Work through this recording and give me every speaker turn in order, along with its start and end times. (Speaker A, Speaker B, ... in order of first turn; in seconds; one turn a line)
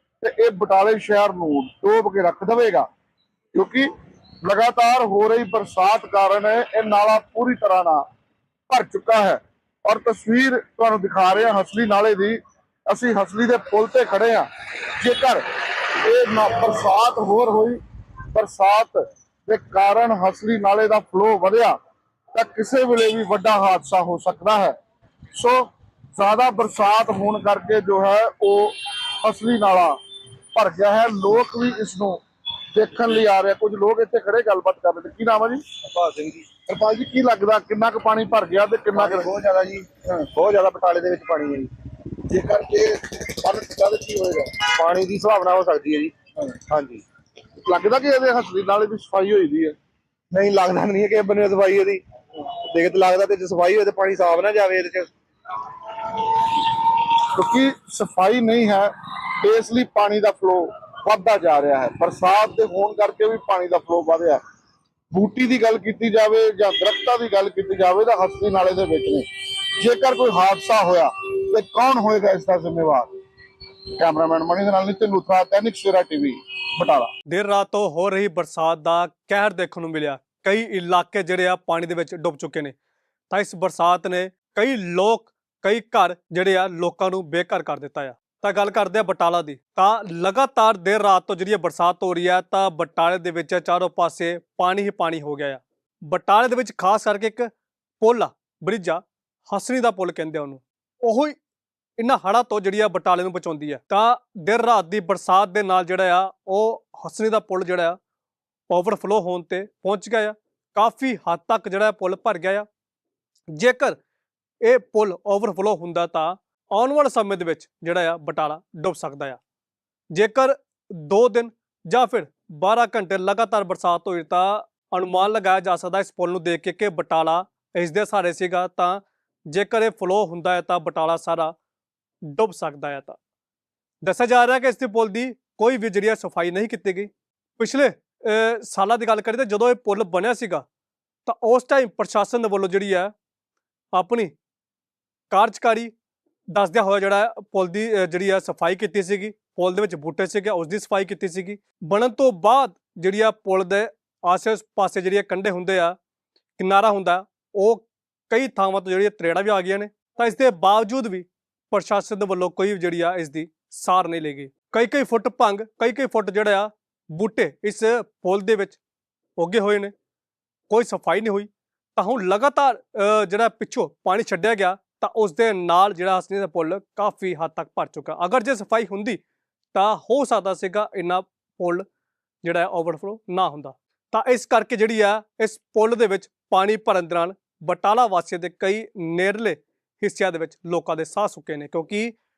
Speaker A: 0.2-2.9
Speaker A: 3.5-3.9
Speaker A: 4.4-8.0
Speaker A: 8.7-14.5
Speaker A: 15.0-15.4
Speaker A: 16.0-17.8
Speaker A: 18.3-21.8
Speaker A: 22.3-24.7
Speaker A: 25.3-30.0
Speaker A: 30.5-32.2
Speaker A: 32.7-35.6
Speaker B: 35.9-36.5
Speaker A: 36.7-39.3
Speaker B: 38.9-41.7
Speaker B: 42.3-43.5
Speaker A: 43.5-44.6
Speaker B: 44.6-46.1
Speaker B: 46.7-47.0
Speaker A: 47.7-49.8
Speaker B: 50.3-52.0
Speaker B: 52.6-55.1
Speaker A: 57.3-64.4
Speaker A: 65.1-69.2
Speaker A: 69.8-73.1
Speaker A: 74.0-77.1
Speaker C: 77.3-82.7
Speaker C: 83.3-97.5
Speaker C: 98.0-101.3
Speaker C: 102.0-108.0
Speaker C: 108.7-112.7
Speaker C: 113.5-114.0
Speaker C: 114.6-119.4
Speaker C: 120.1-131.5
Speaker C: 132.3-133.2
Speaker C: 134.0-140.6
Speaker C: 141.2-143.1
Speaker C: 143.9-144.3
Speaker C: 145.3-145.9
Speaker C: 146.5-156.0
Speaker C: 156.6-168.8
Speaker C: 169.4-169.9
Speaker C: 170.7-179.2
Speaker C: 179.7-181.8
Speaker C: 182.4-192.1